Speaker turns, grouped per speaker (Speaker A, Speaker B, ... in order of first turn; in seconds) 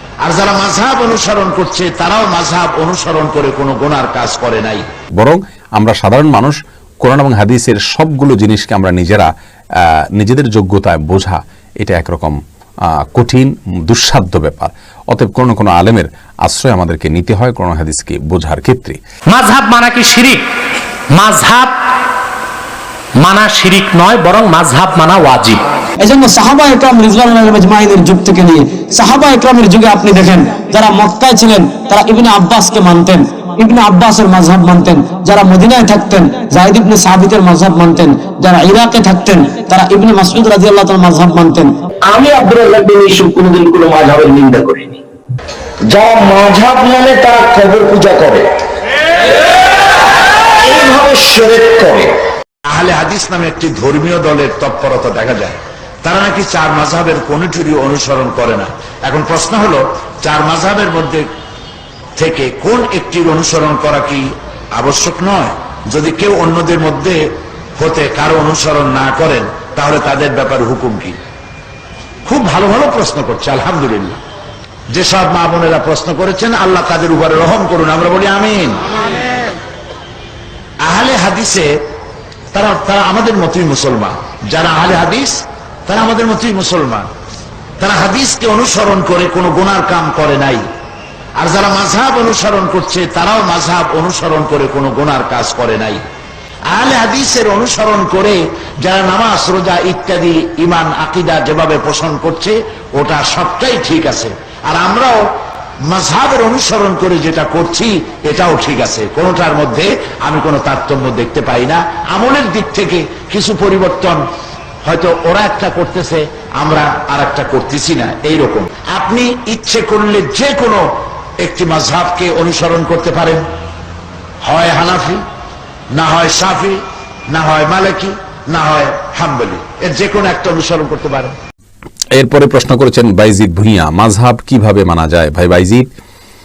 Speaker A: 0.2-4.9, 52.7-61.3, 62.2-67.2, 67.8-71.2, 72.2-74.2, 74.9-78.8, 80.8-81.7, 82.5-87.1, 87.8-90.6, 91.4-96.0, 96.7-105.2, 105.9-114.2, 114.8-120.9, 121.4-123.4, 124.4-125.2, 125.9-131.3
Speaker B: 5.2-9.3, 10.2-12.4, 13.0-19.0, 132.2-135.9
Speaker C: 19.3-20.4, 21.1-21.7, 23.2-25.6
Speaker D: 26.0-41.7
Speaker E: 42.1-45.0, 45.9-48.5, 50.6-52.1